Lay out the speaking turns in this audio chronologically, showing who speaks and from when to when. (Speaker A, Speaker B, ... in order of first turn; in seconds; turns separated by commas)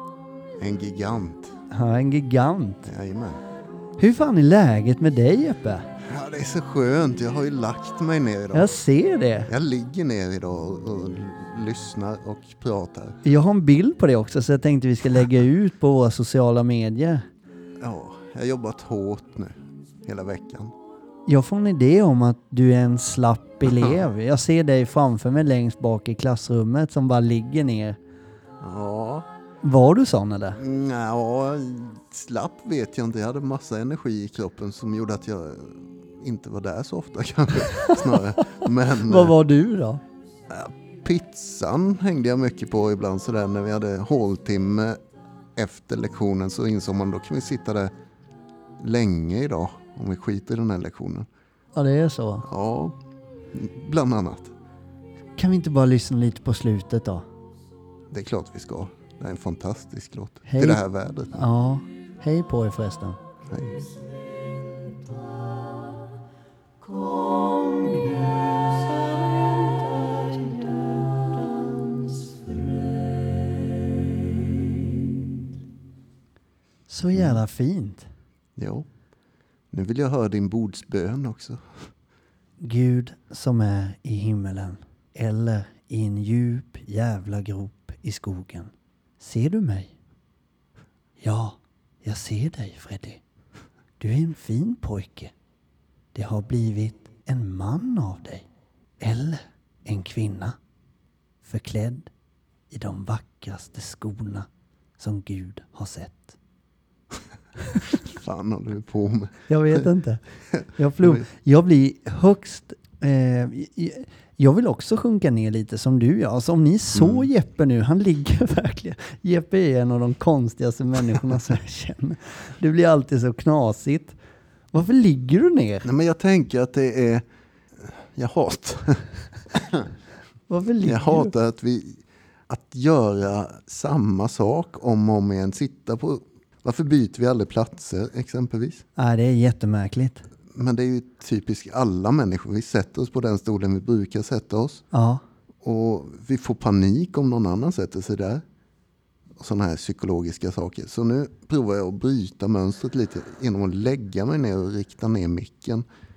Speaker A: 0.6-1.6, Speaker B: 1.7-2.9, Speaker A: 2.8-3.4, Speaker B: 4.0-5.8, Speaker A: 6.0-8.7, Speaker B: 8.5-9.5, Speaker A: 9.5-13.2, Speaker B: 13.2-17.2, Speaker A: 17.8-20.7, Speaker B: 21.3-28.0, Speaker A: 23.7-24.0, Speaker A: 28.6-29.3, Speaker B: 29.6-30.6, Speaker A: 30.6-39.4, Speaker B: 37.7-40.0, Speaker A: 40.5-45.0, Speaker A: 45.5-47.9, Speaker A: 48.8-51.3, Speaker B: 51.7-52.5, Speaker A: 52.5-53.0, Speaker A: 53.5-54.5, Speaker B: 55.4-57.2, Speaker A: 58.1-61.4, Speaker B: 60.5-63.2, Speaker A: 63.5-63.8, Speaker C: 64.7-65.1, Speaker C: 66.8-72.7, Speaker B: 76.9-78.1, Speaker A: 78.5-78.9, Speaker A: 79.7-81.6, Speaker B: 82.6-89.9, Speaker B: 91.2-93.2, Speaker B: 94.0-95.3, Speaker B: 96.1-98.4, Speaker B: 99.0-100.5, Speaker B: 101.4-102.1, Speaker B: 102.7-104.5, Speaker B: 105.0-106.4, Speaker A: 107.9-109.8, Speaker B: 109.5-110.2, Speaker B: 110.7-124.2, Speaker A: 116.9-117.3, Speaker B: 124.7-125.9, Speaker A: 125.8-127.2, Speaker A: 127.8-129.9, Speaker B: 130.5-131.3, Speaker A: 130.8-138.8, Speaker B: 139.0-140.2, Speaker A: 140.5-144.8, Speaker B: 144.9-145.2, Speaker A: 145.6-148.4, Speaker A: 149.4-155.8